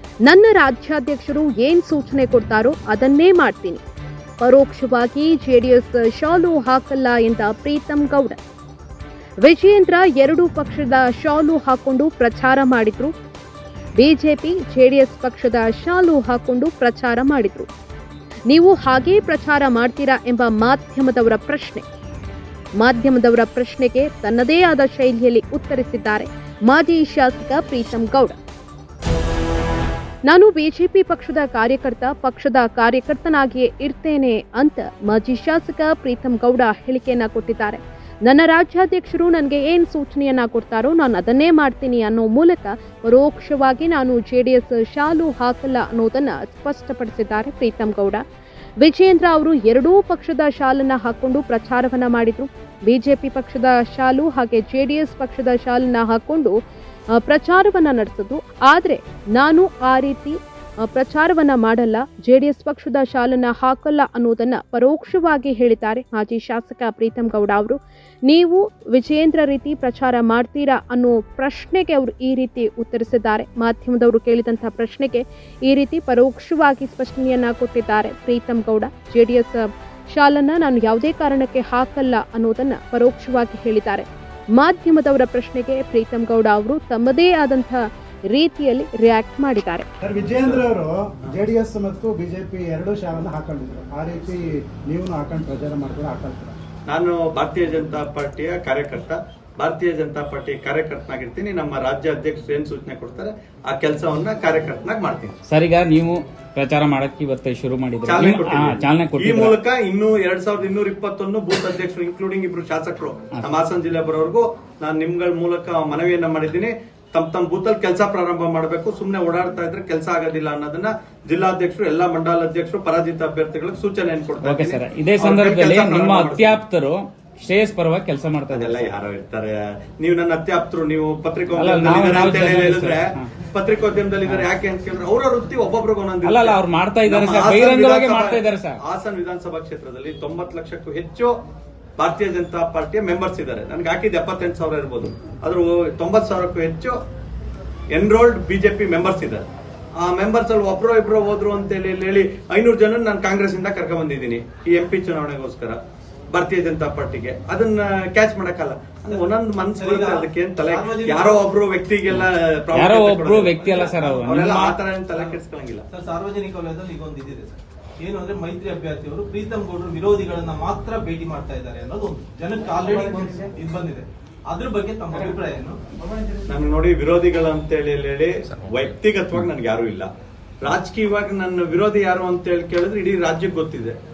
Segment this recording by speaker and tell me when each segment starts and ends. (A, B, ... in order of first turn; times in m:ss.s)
0:00.3-0:03.8 A
0:04.4-0:08.4 A
0:09.4-0:13.1 A
0:14.0-0:17.7 A
0:18.5-0:21.8 A
0:22.8-0:28.4 A
0:30.3-0:48.2 A
0:48.8-0:56.6 A
0:57.2-1:29.9 A
1:30.0-1:36.6 B
1:36.9-1:45.4 C
1:45.5-1:49.6 D
1:48.0-2:06.6 C
2:04.4-2:08.9 D
2:08.5-2:21.3 C
2:11.6-2:13.3 D
2:16.2-2:18.8 D
2:22.0-2:27.0 C
2:27.9-2:29.5 C
2:30.0-2:35.8 C
2:36.3-2:45.8 C
2:39.1-2:41.5 E
2:42.1-2:44.8 D
2:43.6-2:44.3 E
2:45.1-2:45.4 E
2:45.9-2:55.8 E
2:52.8-2:53.3 B
2:56.0-2:56.4 B
2:56.5-3:00.1 C
3:00.6-3:04.0 C